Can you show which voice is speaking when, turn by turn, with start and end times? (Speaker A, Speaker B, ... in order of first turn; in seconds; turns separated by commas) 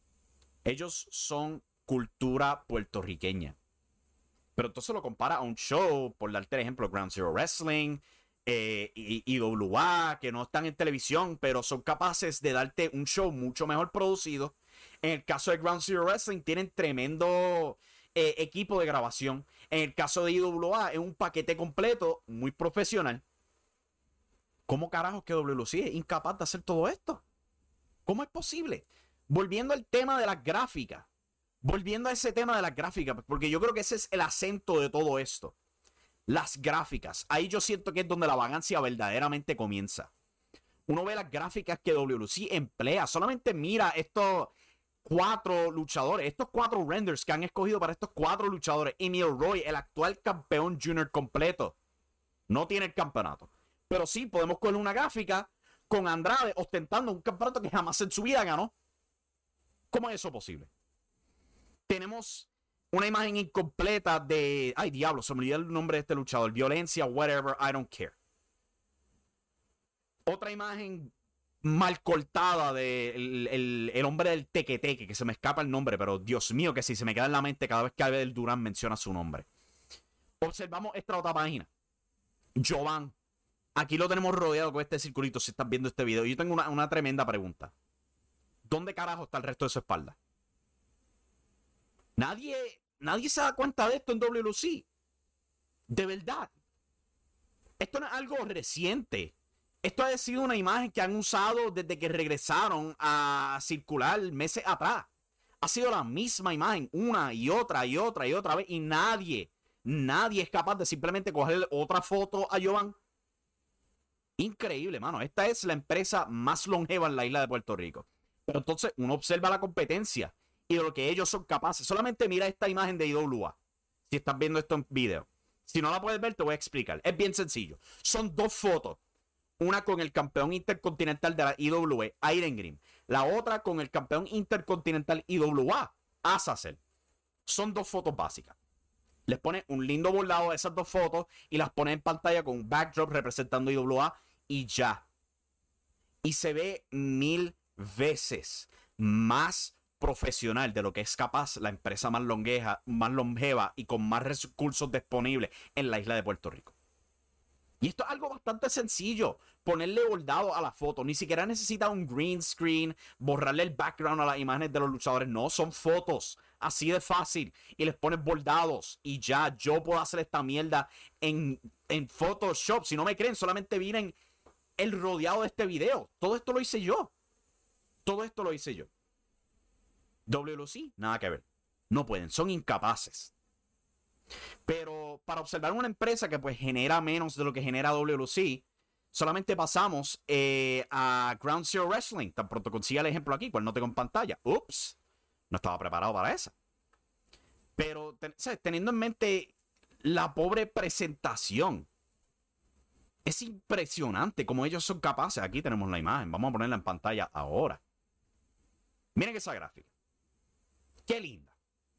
Speaker A: 0.7-3.6, Speaker A: 4.6-23.2, Speaker A: 24.7-27.2, Speaker A: 28.1-31.1, Speaker A: 31.6-35.5, Speaker A: 36.3-40.1, Speaker A: 40.9-44.5, Speaker A: 45.0-51.8, Speaker A: 52.5-58.7, Speaker A: 59.9-60.7, Speaker A: 61.9-68.2, Speaker A: 70.3-71.1, Speaker A: 71.6-79.5, Speaker A: 80.4-81.7, Speaker A: 82.6-83.2, Speaker A: 83.8-87.7, Speaker A: 88.7-90.2, Speaker A: 92.2-94.9, Speaker A: 95.9-96.5, Speaker A: 97.8-105.1, Speaker A: 105.6-113.0, Speaker A: 114.4-123.6, Speaker A: 124.1-129.0, Speaker A: 129.6-136.8, Speaker A: 137.5-138.6, Speaker A: 139.3-145.1, Speaker A: 146.2-156.8, Speaker A: 157.8-174.2, Speaker A: 174.8-177.1, Speaker A: 178.1-178.9, Speaker A: 180.3-183.3, Speaker A: 184.7-195.0, Speaker A: 195.5-196.5, Speaker A: 197.8-201.9, Speaker A: 203.2-207.8, Speaker A: 209.2-209.9, Speaker A: 211.1-211.5